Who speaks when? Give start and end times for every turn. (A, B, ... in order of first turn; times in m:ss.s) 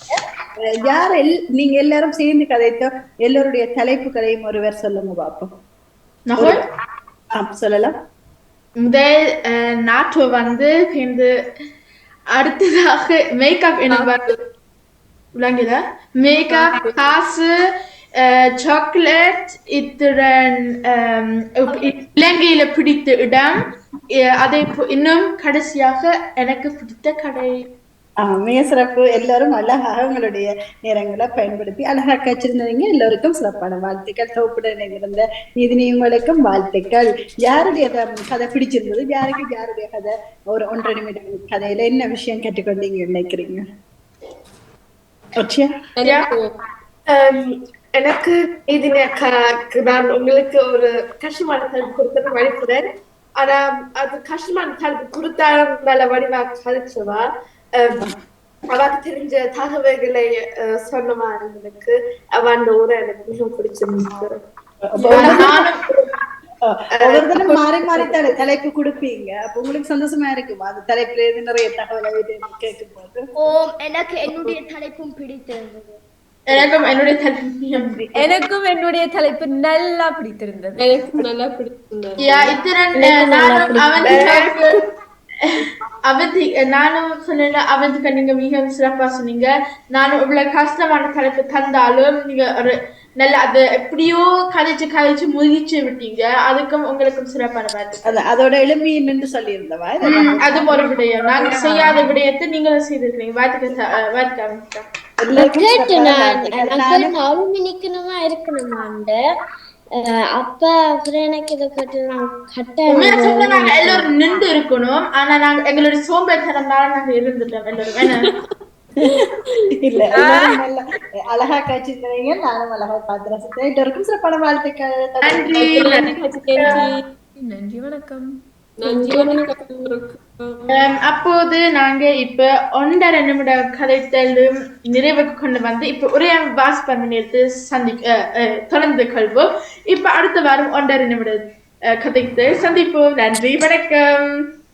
0:00.6-0:05.5 A
0:06.3-0:06.6 B
0:07.4-0:07.9 A
0:08.8-0:11.3 B
0:12.3-0:14.3 B
0:13.9-0:14.4 C
0:15.3-0:17.5 B
0:16.5-0:17.0 C
0:18.2-0:23.6 B
0:24.4-0:27.6 B
0:28.2-0:43.6 A
0:45.4-0:45.7 A
0:46.0-0:46.5 C
0:47.1-0:57.2 D
0:58.7-1:04.4 D
1:04.9-1:05.6 A
1:05.1-1:05.9 D
1:05.1-1:05.8 B
1:06.6-1:13.2 A
1:07.1-1:08.1 D
1:13.4-1:16.0 E
1:16.5-1:18.0 B
1:18.1-1:20.8 F
1:20.8-1:22.5 C
1:22.2-1:24.8 B
1:23.0-1:24.2 G
1:24.0-1:24.8 D
1:25.5-1:38.0 B
1:38.0-1:42.0 A
1:40.0-1:44.8 B
1:45.2-1:47.1 A
1:45.4-1:49.2 G
1:50.0-1:54.0 G
1:52.9-1:58.3 B
1:59.7-2:00.0 C
1:59.8-2:05.5 A
2:00.1-2:00.6 F
2:05.2-2:06.8 B
2:05.5-2:07.0 C
2:07.4-2:08.3 F
2:08.8-2:10.8 C
2:10.7-2:21.4 B
2:22.0-2:24.4 B